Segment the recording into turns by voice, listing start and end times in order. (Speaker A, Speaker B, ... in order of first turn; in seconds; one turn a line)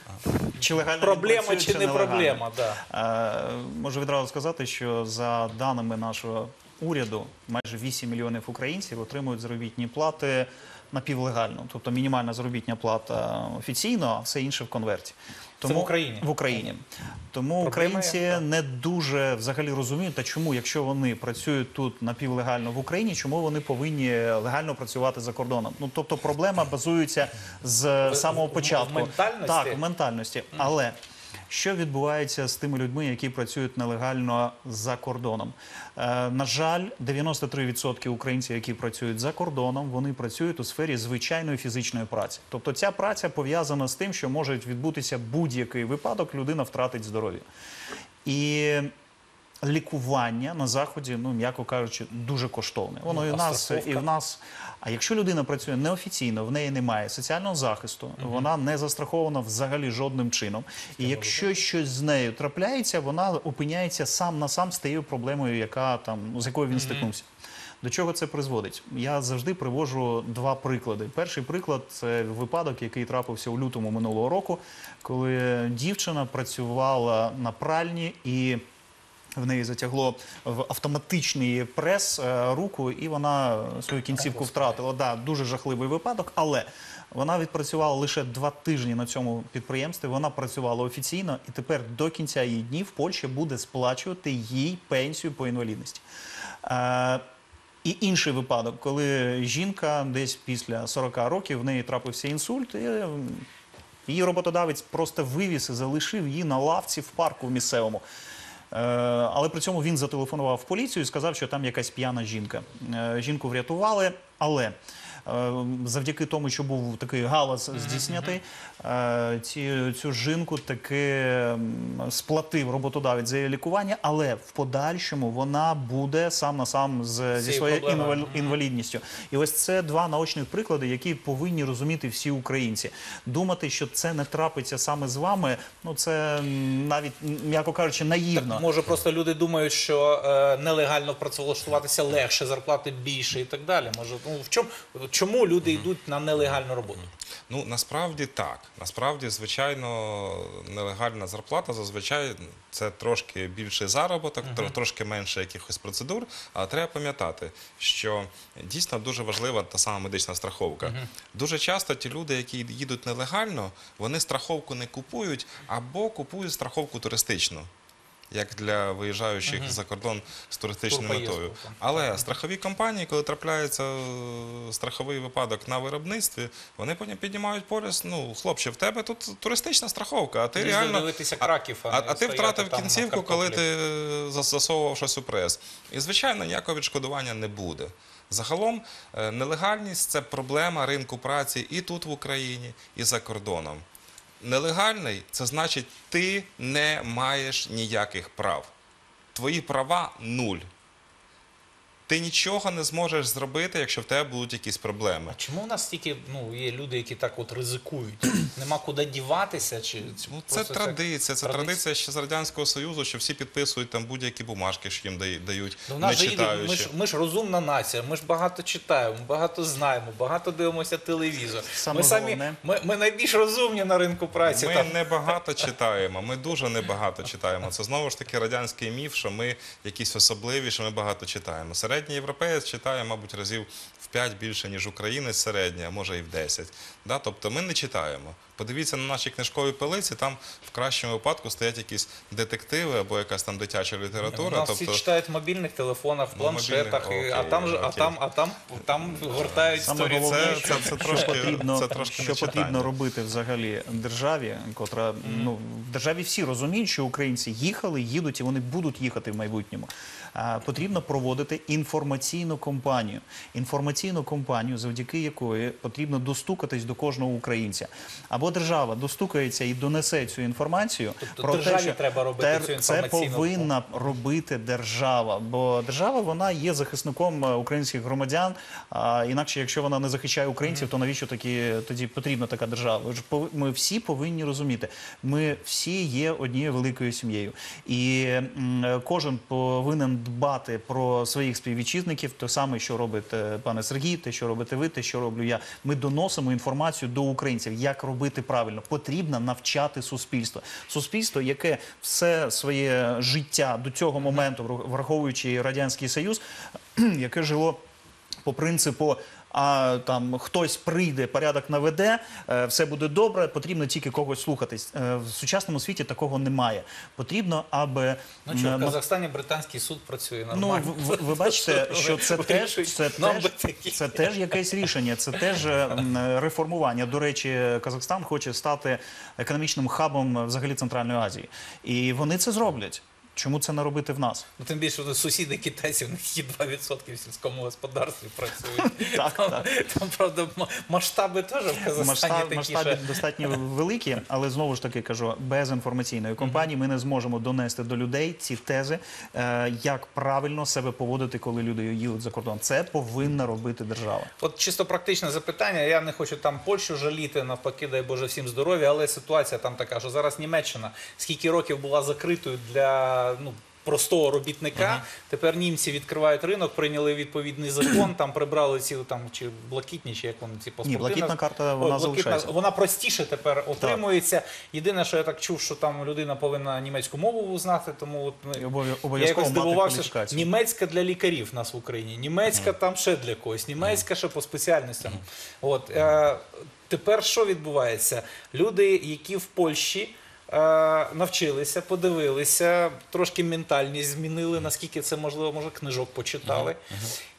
Speaker A: 0.5-31.0
Speaker B: 1.0-2.8
Speaker B: 15.6-16.3
Speaker B: 17.6-18.4
Speaker B: 28.1-29.8
Speaker A: 31.5-47.5
Speaker A: 48.2-48.9
Speaker A: 49.6-67.3
Speaker B: 53.1-54.1
Speaker B: 58.2-58.5
Speaker B: 61.0-61.5
Speaker B: 66.7-67.1
Speaker A: 67.8-78.6
Speaker A: 79.4-96.0
Speaker B: 84.2-84.8
Speaker A: 96.6-97.2
Speaker A: 97.8-103.5
Speaker A: 104.1-108.0
Speaker A: 108.7-138.7
Speaker B: 117.7-118.4
Speaker B: 127.3-128.6
Speaker B: 138.3-147.1
Speaker C: 147.5-167.7
Speaker B: 154.4-154.8
Speaker B: 160.8-161.1
Speaker C: 168.3-193.8
Speaker B: 169.5-169.8
Speaker B: 170.9-172.2
Speaker B: 180.6-183.6
Speaker C: 194.4-198.7
Speaker C: 199.3-200.7
Speaker C: 202.1-205.3
Speaker B: 205.3-211.8
Speaker C: 210.3-216.9
Speaker B: 215.9-224.9
Speaker A: 221.8-222.6
Speaker C: 224.5-245.0
Speaker B: 244.3-251.7
Speaker C: 246.3-248.2
Speaker C: 249.3-252.9
Speaker A: 249.8-306.4
Speaker B: 255.2-255.5
Speaker B: 271.2-273.7
Speaker A: 306.9-307.8
Speaker A: 308.4-319.0
Speaker B: 318.5-324.8
Speaker A: 320.5-334.5
Speaker B: 334.6-343.1
Speaker A: 338.8-339.7
Speaker A: 341.9-354.3
Speaker B: 346.4-346.7
Speaker B: 354.4-396.8
Speaker C: 364.8-365.0
Speaker A: 370.8-372.6
Speaker A: 378.6-380.5
Speaker C: 396.4-397.1